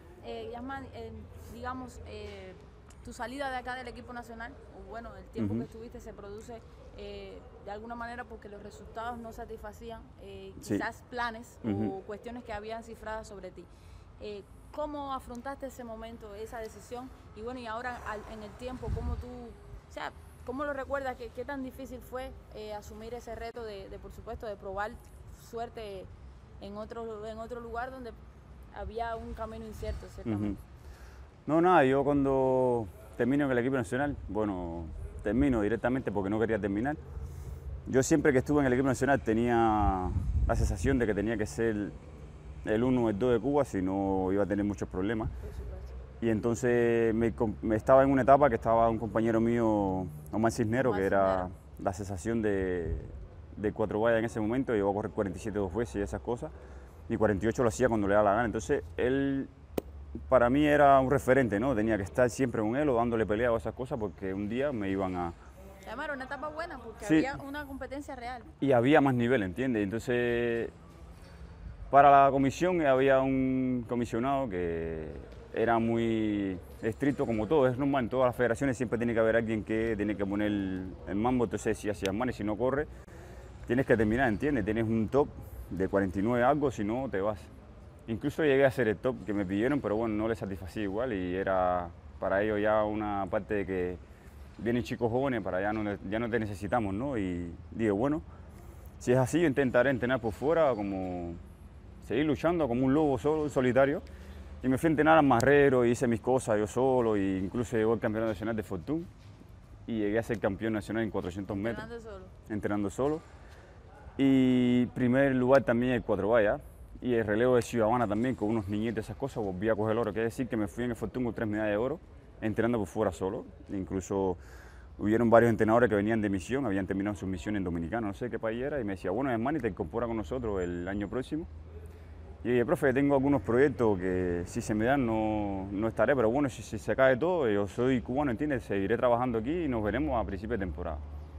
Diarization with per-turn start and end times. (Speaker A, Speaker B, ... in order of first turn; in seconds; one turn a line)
Speaker A: 0.2-28.2
Speaker B: 5.4-5.7
Speaker B: 10.6-10.9
Speaker B: 11.6-12.0
Speaker A: 28.7-30.6
Speaker B: 30.2-30.6
Speaker B: 31.5-37.0
Speaker B: 37.9-42.0
Speaker B: 42.6-45.3
Speaker A: 45.4-46.0
Speaker B: 46.2-56.5
Speaker A: 50.8-51.5
Speaker B: 57.1-59.5
Speaker B: 60.3-65.4
Speaker A: 65.8-68.5
Speaker B: 67.0-67.3
Speaker B: 68.6-70.7
Speaker B: 71.9-82.9
Speaker B: 83.7-87.5
Speaker B: 88.1-94.0
Speaker B: 94.6-98.2
Speaker B: 99.0-101.4
Speaker B: 102.0-104.0
Speaker B: 104.6-109.1
Speaker B: 109.9-111.9
Speaker A: 111.5-112.3
Speaker B: 112.5-113.2
Speaker B: 114.2-124.4
Speaker B: 125.0-131.5
Speaker B: 132.4-141.0